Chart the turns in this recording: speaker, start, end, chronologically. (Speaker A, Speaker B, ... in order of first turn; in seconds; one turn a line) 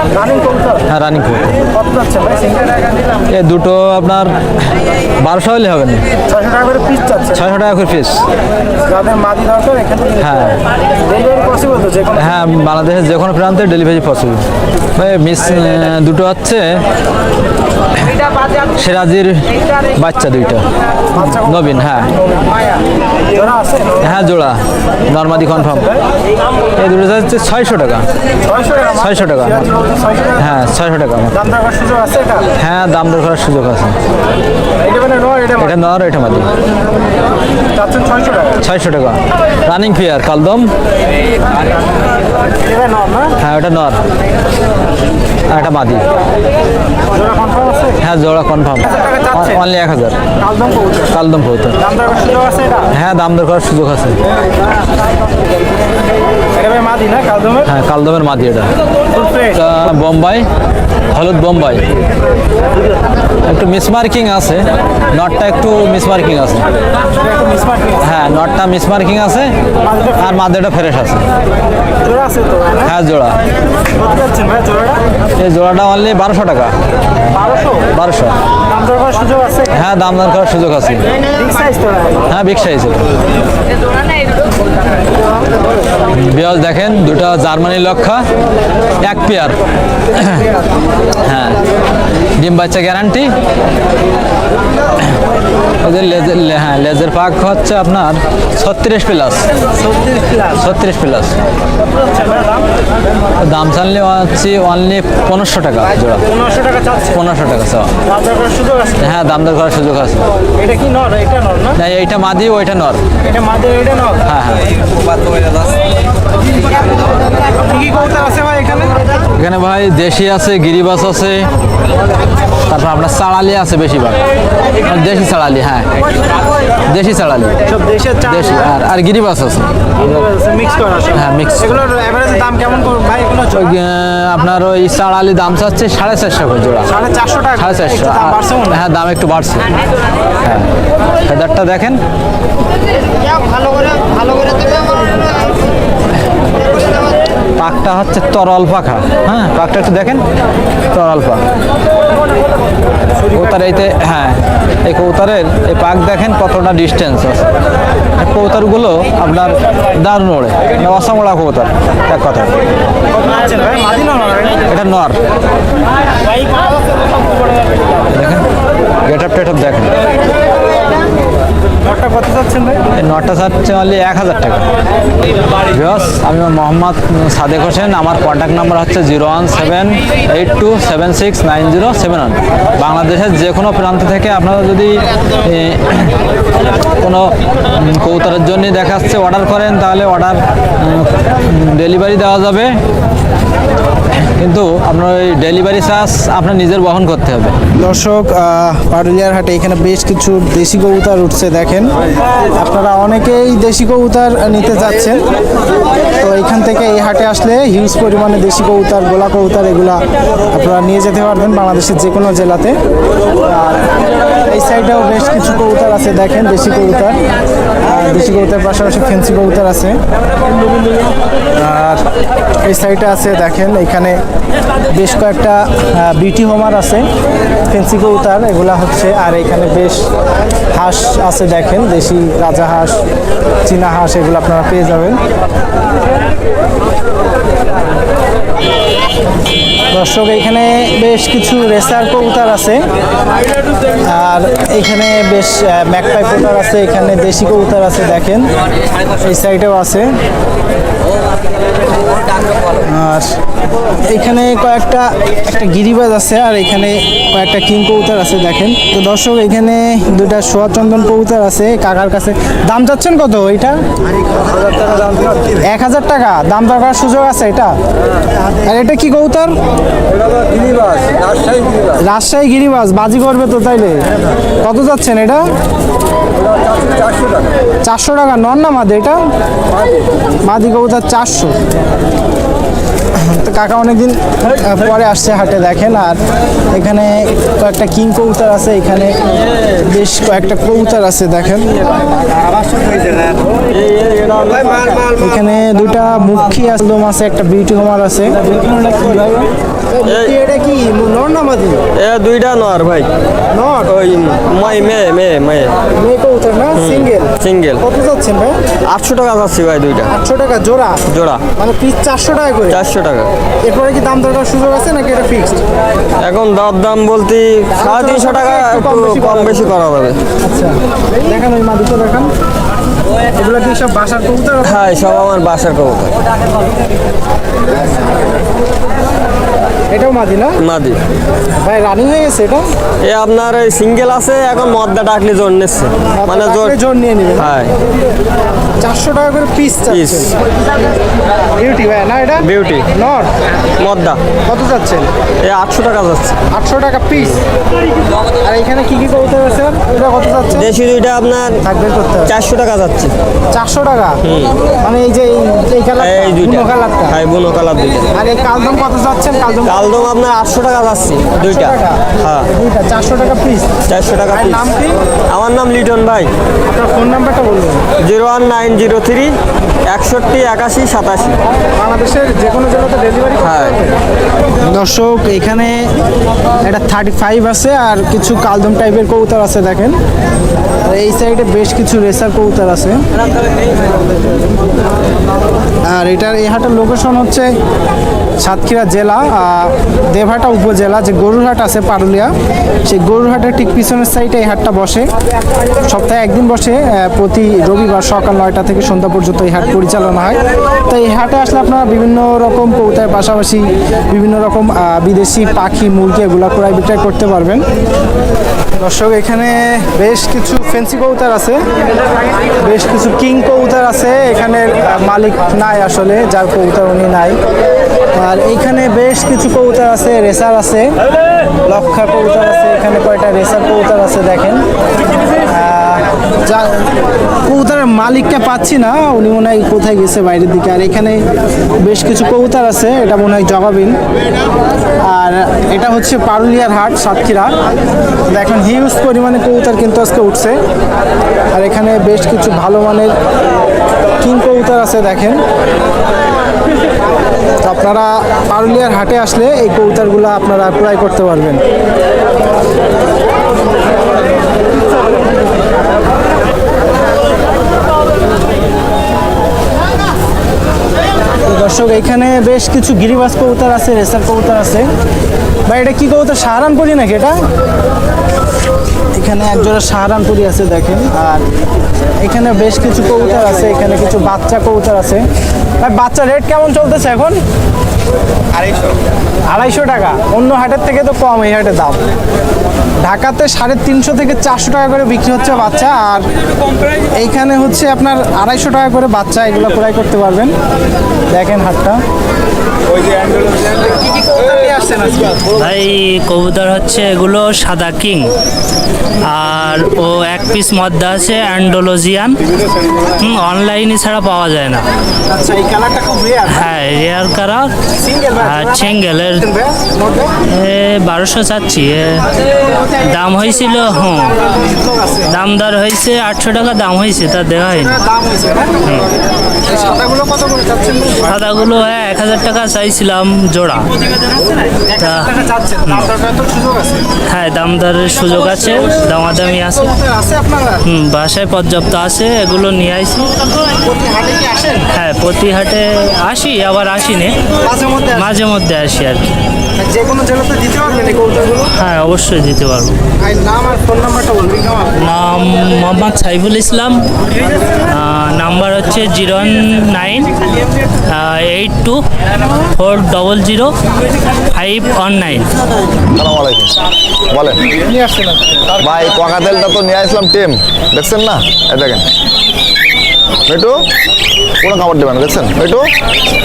Speaker A: 0.1-0.8
Speaker B: 0.8-1.7
Speaker A: 1.8-2.8
Speaker B: 3.3-6.1
Speaker A: 6.3-7.4
Speaker B: 7.3-8.2
Speaker A: 8.9-10.4
Speaker B: 10.2-10.6
Speaker A: 11.1-12.2
Speaker B: 12.1-14.4
Speaker B: 15.0-16.8
Speaker B: 18.0-22.1
Speaker A: 23.4-24.0
Speaker B: 24.0-26.0
Speaker B: 26.8-28.1
Speaker A: 28.5-30.3
Speaker B: 28.9-29.8
Speaker B: 30.4-31.5
Speaker A: 31.5-32.5
Speaker B: 32.6-34.0
Speaker A: 34.8-35.7
Speaker B: 35.5-36.5
Speaker A: 37.8-38.6
Speaker B: 38.6-40.7
Speaker A: 42.6-43.3
Speaker B: 43.4-44.0
Speaker B: 45.5-46.0
Speaker A: 47.1-48.0
Speaker B: 48.0-50.2
Speaker A: 49.0-49.5
Speaker A: 50.4-51.1
Speaker B: 51.1-51.8
Speaker A: 51.9-52.9
Speaker B: 52.9-54.2
Speaker A: 56.5-57.7
Speaker B: 57.6-58.7
Speaker A: 59.1-59.5
Speaker B: 59.5-60.5
Speaker B: 61.1-61.9
Speaker B: 63.5-66.7
Speaker A: 67.2-68.0
Speaker B: 68.0-69.5
Speaker A: 69.9-70.2
Speaker B: 70.2-71.3
Speaker A: 72.0-72.9
Speaker B: 72.8-73.4
Speaker A: 74.0-75.0
Speaker B: 75.4-76.7
Speaker A: 77.4-77.8
Speaker B: 77.8-78.4
Speaker A: 78.7-79.7
Speaker B: 79.7-81.0
Speaker A: 81.4-82.2
Speaker B: 82.3-83.2
Speaker B: 86.1-88.3
Speaker B: 89.0-89.6
Speaker B: 90.1-90.5
Speaker B: 91.2-91.6
Speaker B: 92.4-93.3
Speaker B: 95.8-99.5
Speaker A: 99.8-100.5
Speaker B: 100.4-101.4
Speaker A: 101.9-102.7
Speaker B: 103.4-106.2
Speaker A: 106.3-107.1
Speaker B: 107.0-107.9
Speaker A: 108.1-109.0
Speaker B: 109.0-110.2
Speaker A: 110.6-111.8
Speaker B: 111.8-113.0
Speaker A: 113.3-114.2
Speaker B: 114.3-114.6
Speaker A: 117.6-119.0
Speaker B: 119.4-121.5
Speaker B: 122.7-124.2
Speaker B: 124.8-125.9
Speaker B: 126.9-127.6
Speaker A: 127.7-128.7
Speaker B: 128.2-130.1
Speaker A: 130.0-133.7
Speaker B: 131.1-131.9
Speaker B: 133.5-136.9
Speaker A: 137.0-138.8
Speaker B: 137.6-139.7
Speaker B: 141.3-142.0
Speaker B: 147.6-150.2
Speaker B: 150.9-151.4
Speaker B: 153.2-157.4
Speaker B: 158.2-162.6
Speaker A: 163.1-164.6
Speaker B: 164.7-165.2
Speaker B: 168.1-168.5
Speaker B: 169.1-169.9
Speaker A: 171.8-172.8
Speaker B: 172.9-174.6
Speaker B: 175.7-186.2
Speaker B: 187.0-192.7
Speaker B: 194.2-197.6
Speaker A: 197.8-201.9
Speaker A: 202.6-205.3
Speaker A: 206.2-212.8
Speaker A: 213.5-213.9
Speaker A: 214.5-217.2
Speaker A: 217.9-220.0
Speaker A: 221.6-222.0
Speaker A: 222.7-224.2
Speaker A: 224.9-227.1
Speaker A: 227.7-230.1
Speaker A: 230.7-233.0
Speaker A: 233.7-235.2
Speaker A: 239.9-242.9
Speaker A: 244.0-248.5
Speaker A: 249.2-250.1
Speaker A: 252.8-253.3
Speaker A: 254.1-263.8
Speaker A: 265.6-267.8
Speaker A: 268.6-269.6
Speaker A: 272.0-274.1
Speaker A: 274.6-275.5
Speaker A: 277.8-279.3
Speaker A: 280.4-281.6
Speaker A: 283.2-286.2
Speaker A: 286.7-289.2
Speaker A: 289.9-291.7
Speaker C: 293.7-295.2
Speaker A: 295.2-299.5
Speaker A: 300.0-301.8
Speaker C: 300.1-300.4
Speaker C: 302.0-303.1
Speaker A: 303.5-303.9
Speaker C: 303.9-305.7
Speaker A: 306.0-307.3
Speaker C: 306.8-307.8
Speaker A: 307.8-308.6
Speaker C: 308.9-310.1
Speaker A: 310.2-311.0
Speaker C: 311.1-311.4
Speaker A: 311.6-312.8
Speaker C: 312.7-313.3
Speaker A: 313.6-315.6
Speaker C: 316.2-320.2
Speaker A: 317.8-319.8
Speaker A: 320.4-322.3
Speaker A: 323.4-324.8
Speaker C: 324.6-326.2
Speaker A: 329.9-330.6
Speaker C: 330.6-331.0
Speaker A: 331.6-332.7
Speaker C: 333.0-336.8
Speaker A: 336.1-337.5
Speaker C: 337.4-337.7
Speaker A: 338.8-340.3
Speaker C: 339.9-340.3
Speaker A: 341.6-343.3
Speaker C: 342.4-342.9
Speaker C: 343.8-344.2
Speaker A: 344.5-345.1
Speaker C: 345.4-346.4
Speaker A: 346.5-347.4
Speaker A: 348.4-350.7
Speaker C: 350.5-351.6
Speaker A: 351.7-352.3
Speaker C: 352.2-353.1
Speaker A: 353.5-354.2
Speaker C: 354.2-354.5
Speaker A: 354.8-357.2
Speaker C: 356.0-358.1
Speaker A: 358.2-360.1
Speaker C: 359.6-362.5
Speaker A: 361.4-362.0
Speaker A: 362.6-363.7
Speaker C: 363.9-364.7
Speaker A: 364.3-365.0
Speaker C: 365.3-366.3
Speaker A: 366.7-367.8
Speaker C: 368.0-369.3
Speaker C: 369.9-371.4
Speaker A: 371.8-373.9
Speaker C: 373.4-373.8
Speaker A: 374.7-375.9
Speaker A: 376.6-380.0
Speaker A: 380.9-383.0
Speaker A: 385.9-387.5
Speaker A: 388.4-392.3
Speaker A: 392.9-395.1
Speaker A: 395.9-407.7
Speaker A: 408.8-411.6
Speaker A: 412.6-417.4
Speaker A: 418.2-421.0
Speaker A: 421.7-424.7
Speaker A: 425.5-426.9
Speaker A: 427.4-431.3
Speaker A: 431.8-434.0
Speaker A: 435.0-437.6
Speaker A: 438.3-440.6
Speaker A: 441.5-443.1
Speaker A: 444.2-445.4
Speaker A: 447.6-451.6
Speaker A: 461.5-464.9
Speaker A: 465.7-467.4
Speaker A: 469.1-471.4
Speaker A: 472.2-475.3
Speaker A: 475.8-477.4
Speaker A: 479.5-482.0
Speaker A: 483.0-486.3
Speaker A: 487.1-490.5
Speaker A: 491.3-492.0
Speaker A: 494.4-495.4
Speaker D: 495.5-498.3
Speaker D: 499.3-502.4
Speaker D: 503.0-504.9
Speaker A: 505.3-506.6
Speaker D: 506.5-507.7
Speaker A: 508.0-510.3
Speaker D: 508.4-509.5
Speaker D: 510.5-514.4
Speaker A: 514.2-515.3
Speaker D: 515.3-518.0
Speaker A: 517.8-518.9
Speaker A: 519.7-521.3
Speaker D: 521.2-523.9
Speaker A: 524.8-527.1
Speaker D: 525.0-525.3
Speaker D: 525.9-526.1
Speaker D: 527.3-529.9
Speaker A: 529.8-530.8
Speaker D: 530.8-533.5
Speaker A: 533.8-534.9
Speaker D: 534.9-537.4
Speaker A: 537.6-538.3
Speaker D: 538.1-539.3
Speaker A: 539.8-541.7
Speaker D: 541.8-542.9
Speaker A: 543.2-544.9
Speaker D: 545.0-547.1
Speaker D: 547.9-550.3
Speaker D: 551.1-552.0
Speaker D: 552.8-553.7
Speaker D: 554.5-555.5
Speaker E: 556.1-556.8
Speaker E: 557.3-557.6
Speaker A: 557.9-558.4
Speaker E: 558.8-562.1
Speaker E: 563.5-563.9
Speaker E: 564.6-565.9